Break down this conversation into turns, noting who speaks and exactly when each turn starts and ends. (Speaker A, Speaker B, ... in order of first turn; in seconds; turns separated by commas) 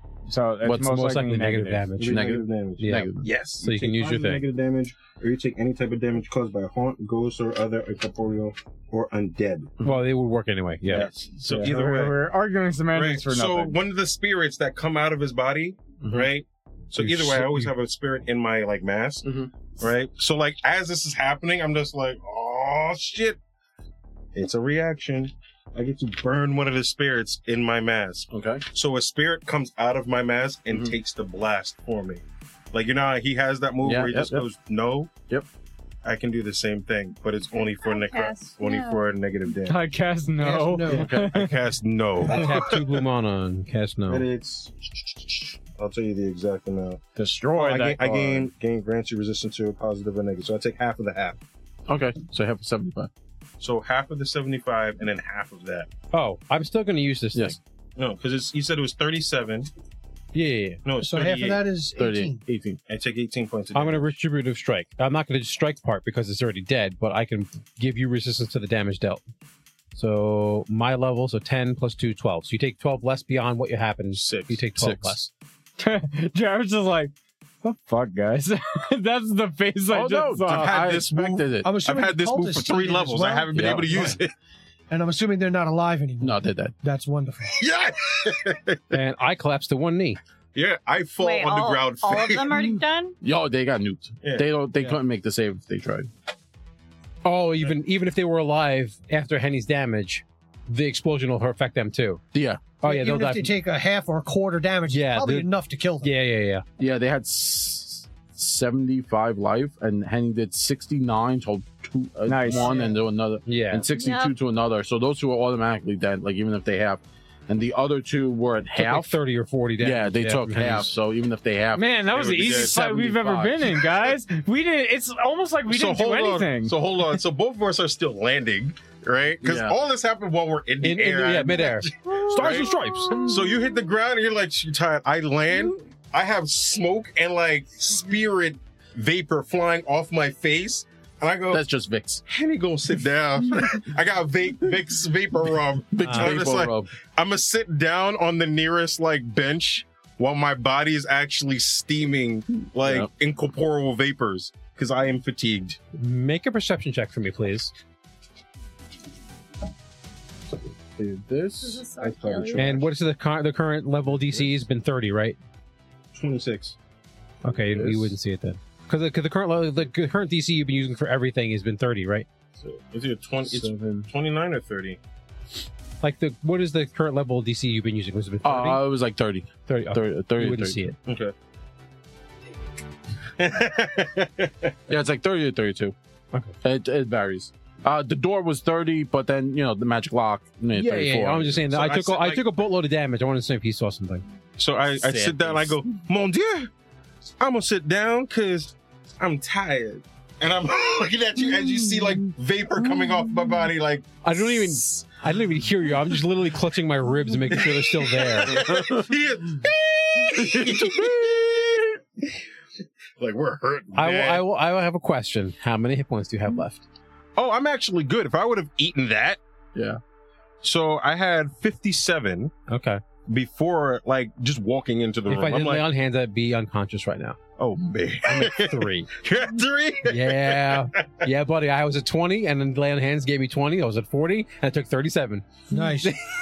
Speaker A: 0.3-1.9, Speaker B: 0.6-0.9, Speaker C: 0.7-4.5, Speaker D: 2.0-9.8, Speaker B: 2.0-3.3, Speaker C: 9.8-11.1, Speaker D: 10.9-12.2, Speaker A: 11.4-13.8, Speaker D: 12.9-19.2, Speaker B: 16.0-16.3, Speaker C: 17.0-17.7, Speaker B: 19.2-19.5, Speaker D: 19.8-23.4, Speaker D: 24.4-35.1, Speaker B: 28.3-28.6, Speaker B: 33.8-34.5, Speaker D: 36.0-39.8, Speaker E: 37.5-39.0, Speaker A: 39.7-41.6, Speaker F: 40.4-41.1, Speaker B: 40.9-41.4, Speaker D: 41.3-43.0, Speaker C: 42.2-44.3, Speaker D: 44.1-47.0, Speaker A: 47.2-48.5, Speaker D: 47.5-51.4, Speaker B: 51.9-53.1, Speaker D: 53.6-55.9, Speaker C: 56.1-57.6, Speaker D: 58.0-59.7, Speaker C: 60.3-60.8, Speaker D: 60.9-61.6, Speaker F: 61.0-62.4, Speaker B: 62.0-62.8, Speaker D: 62.9-64.1, Speaker C: 63.7-69.2, Speaker C: 70.0-75.3, Speaker D: 74.2-74.6, Speaker B: 74.4-75.2, Speaker A: 75.8-80.9, Speaker B: 79.9-81.7, Speaker D: 80.5-84.3, Speaker F: 81.6-84.2, Speaker B: 83.5-83.8, Speaker F: 84.9-87.6, Speaker B: 86.2-86.7, Speaker D: 87.6-89.0, Speaker C: 88.9-90.2, Speaker D: 90.5-92.8, Speaker E: 91.2-93.2, Speaker B: 93.2-96.1, Speaker D: 94.2-95.0, Speaker C: 97.2-102.2, Speaker B: 102.3-102.6, Speaker C: 102.8-103.5, Speaker F: 102.8-106.1, Speaker C: 104.9-105.5, Speaker C: 106.0-106.7, Speaker B: 106.8-119.1, Speaker A: 112.3-112.9, Speaker C: 113.5-113.8, Speaker E: 113.9-114.3, Speaker C: 118.8-120.9, Speaker B: 119.8-123.8, Speaker A: 121.8-126.8, Speaker D: 122.1-122.8, Speaker D: 125.7-141.6, Speaker B: 129.4-129.8, Speaker C: 130.8-133.5, Speaker B: 141.5-142.2, Speaker D: 142.3-155.8, Speaker B: 145.9-146.9, Speaker C: 146.0-146.4, Speaker B: 152.8-153.1, Speaker C: 156.0-157.7, Speaker B: 161.0-161.9, Speaker E: 161.6-162.8, Speaker D: 162.0-162.9, Speaker C: 162.6-165.4, Speaker D: 166.2-166.8, Speaker C: 167.4-172.3, Speaker B: 167.5-168.2, Speaker D: 172.6-175.0, Speaker B: 173.5-174.1, Speaker C: 176.0-178.8, Speaker B: 178.4-180.9, Speaker C: 179.7-181.0, Speaker D: 181.1-181.3, Speaker D: 183.4-184.8, Speaker B: 184.9-185.9, Speaker B: 186.6-191.7, Speaker C: 190.7-194.2, Speaker D: 191.7-192.5, Speaker D: 194.6-196.7, Speaker C: 195.0-195.7, Speaker D: 197.4-204.8, Speaker C: 204.2-208.7, Speaker D: 207.5-212.2, Speaker B: 208.6-209.0, Speaker B: 210.4-211.3, Speaker D: 213.2-214.5, Speaker C: 213.9-216.8, Speaker D: 217.4-219.4, Speaker B: 219.8-220.0, Speaker D: 220.6-222.6, Speaker C: 222.7-223.0, Speaker D: 223.2-225.9, Speaker C: 225.3-227.4, Speaker D: 227.6-231.2, Speaker C: 228.3-229.1, Speaker C: 230.1-236.2, Speaker F: 235.7-236.2